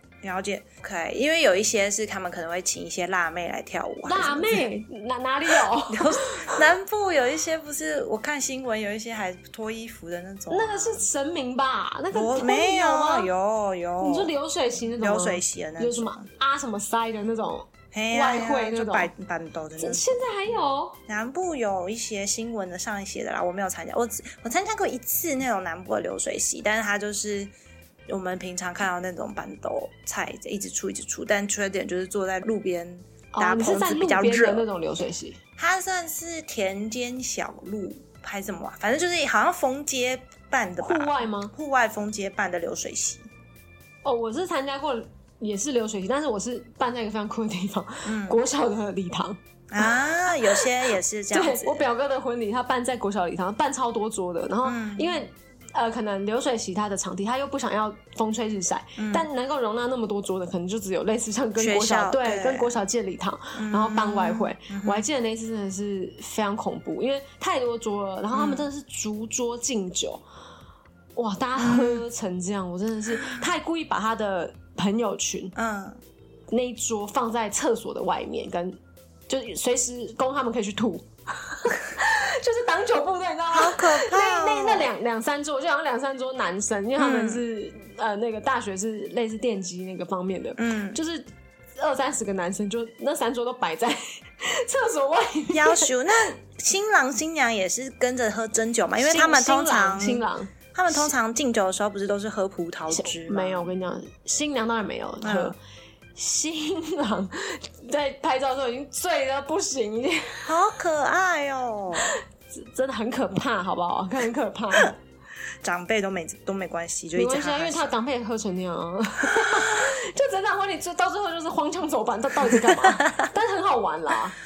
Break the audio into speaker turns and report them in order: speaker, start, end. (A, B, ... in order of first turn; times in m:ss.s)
0:00.2-0:04.6 A
0:04.0-0:06.6 B
0:05.5-0:11.0 A
0:10.5-0:13.3 B
0:12.1-0:14.3 A
0:14.0-0:19.1 B
0:15.0-0:16.3 A
0:17.9-0:20.2 A
0:19.8-0:21.0 B
0:21.1-0:27.5 A
0:28.1-0:34.6 A
0:33.3-0:35.4 B
0:35.6-0:43.2 A
0:40.8-0:41.5 B
0:44.0-0:50.7 B
0:48.0-0:48.4 A
0:49.7-0:51.8 A
0:51.3-1:10.2 B
0:54.6-0:55.2 A
0:59.0-0:59.3 A
1:01.6-1:02.7 A
1:03.5-1:05.0 A
1:08.3-1:08.7 A
1:11.2-1:15.5 B
1:11.6-1:12.0 A
1:13.1-1:13.5 A
1:15.6-1:16.0 A
1:16.5-1:18.8 B
1:19.3-1:36.3 B
1:23.5-1:24.9 A
1:27.0-1:27.4 A
1:30.6-1:31.0 A
1:35.5-1:43.7 A
1:39.0-1:41.1 B
1:42.9-1:45.6 B
1:45.2-1:45.6 A
1:46.1-1:50.5 B
1:50.4-1:52.1 A
1:52.0-1:55.0 B
1:55.6-1:57.9 A
1:57.1-2:04.4 B
1:59.2-1:59.9 A
2:02.5-2:03.0 A